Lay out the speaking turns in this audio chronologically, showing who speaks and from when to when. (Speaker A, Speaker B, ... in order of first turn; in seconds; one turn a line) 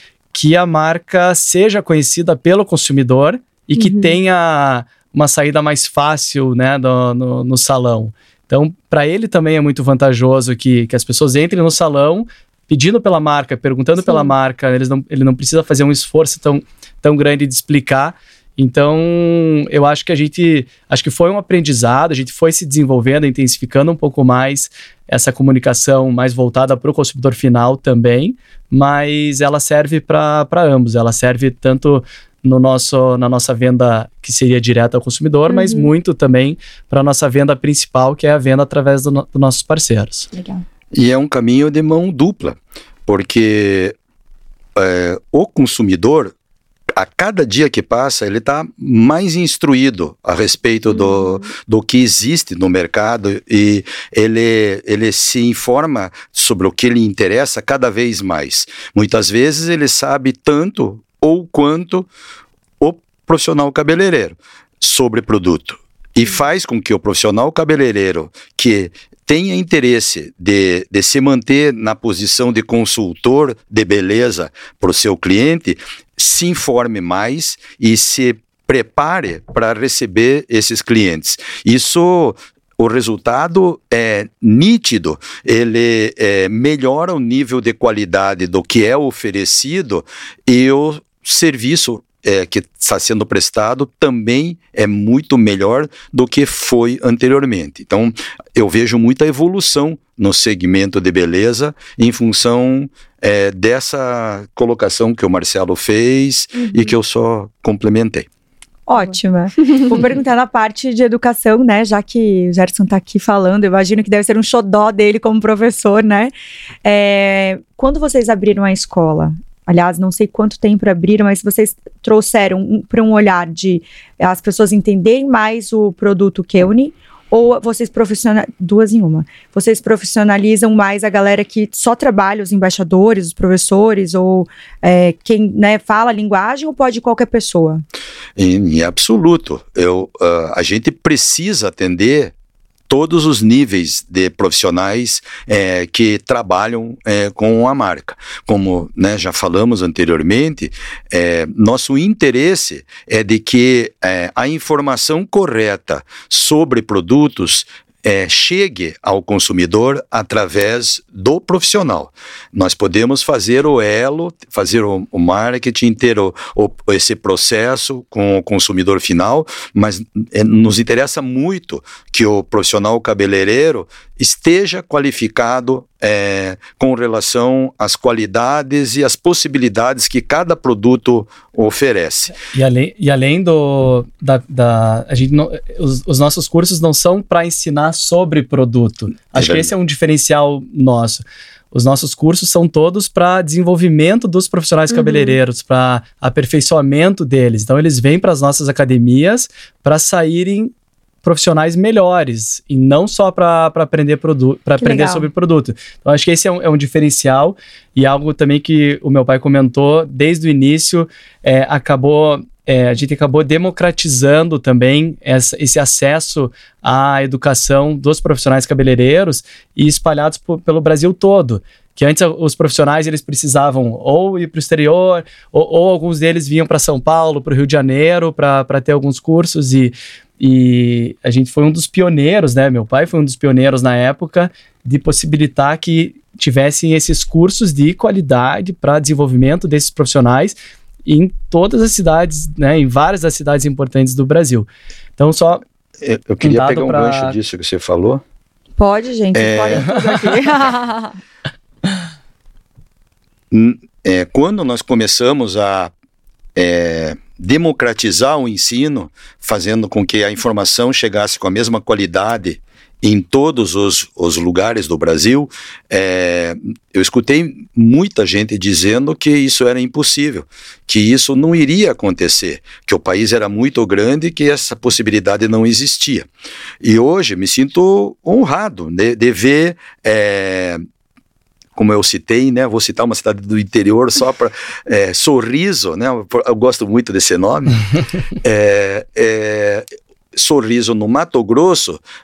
Speaker A: 0.3-40.3
Speaker B: 3.8-4.2
Speaker B: 14.1-14.3
Speaker B: 35.5-35.9
Speaker B: 40.3-40.6
Speaker C: 40.9-44.0
Speaker C: 44.8-46.3
Speaker C: 46.9-62.1
Speaker B: 50.9-51.5
Speaker C: 62.8-108.3
Speaker B: 106.6-106.9
Speaker D: 108.9-116.3
Speaker D: 116.8-137.8
Speaker C: 138.4-142.3
Speaker C: 142.9-182.3
Speaker A: 182.4-200.7
Speaker C: 189.3-189.7
Speaker B: 194.9-195.4
Speaker A: 201.2-245.6
Speaker D: 204.8-205.3
Speaker C: 246.0-248.2
Speaker A: 246.4-247.3
Speaker D: 248.8-251.1
Speaker C: 249.3-249.9
Speaker C: 253.5-255.9
Speaker C: 256.6-276.3
Speaker C: 276.8-280.8
Speaker C: 281.8-287.8
Speaker C: 288.4-292.0